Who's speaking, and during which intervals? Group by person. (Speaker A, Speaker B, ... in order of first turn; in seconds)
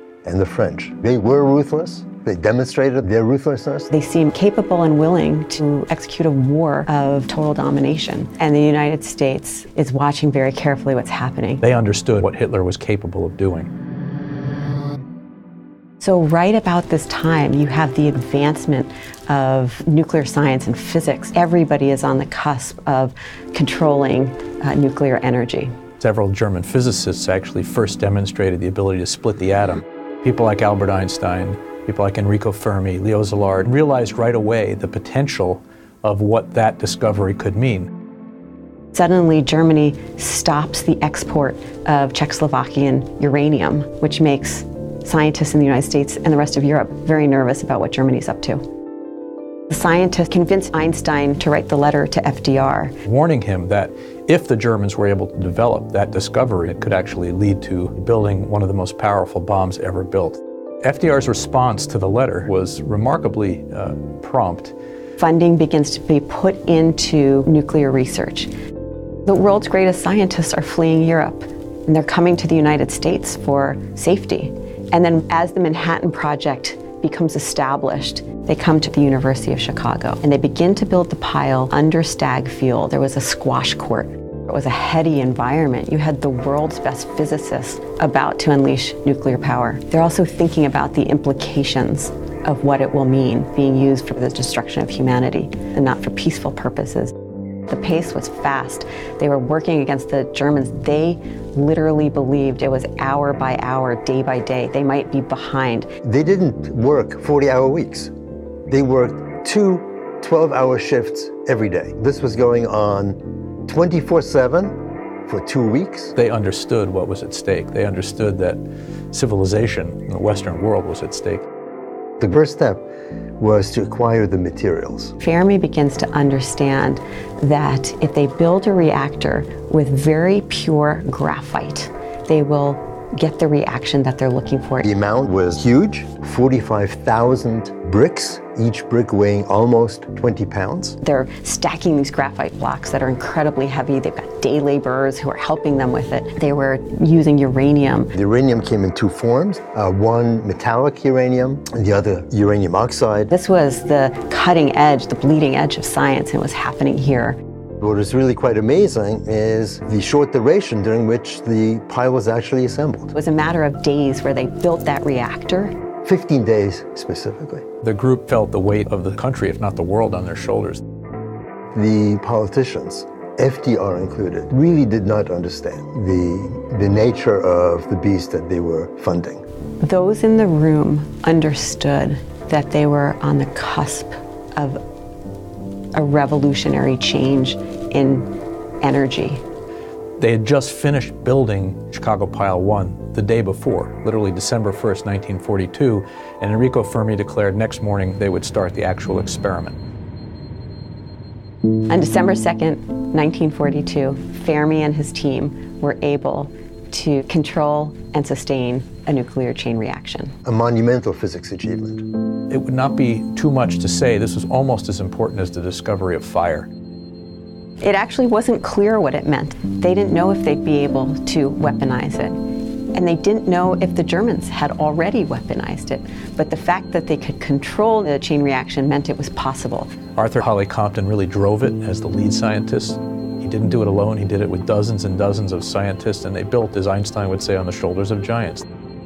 Speaker A: 0.2-3.9, 106.0-108.1, 108.7-116.1, 122.2-122.8, 123.4-125.1, 134.8-141.0, 148.1-153.3, 157.8-163.1, 166.0-167.6, 171.7-179.4, 210.4-212.1
Speaker B: 3.9-11.6, 16.0-25.8, 38.9-48.6, 49.7-52.9, 65.2-68.5, 69.2-97.1, 97.7-105.9, 125.2-134.9, 141.0-148.1, 153.3-157.4, 163.1-165.7, 179.8-184.8, 185.9-189.4, 201.9-210.3, 217.8-222.4, 222.9-229.9
Speaker C: 11.6-13.7, 26.0-37.9, 53.0-64.7, 116.2-118.6, 119.1-121.4, 167.8-170.8, 190.2-199.8, 212.5-216.7, 230.2-238.6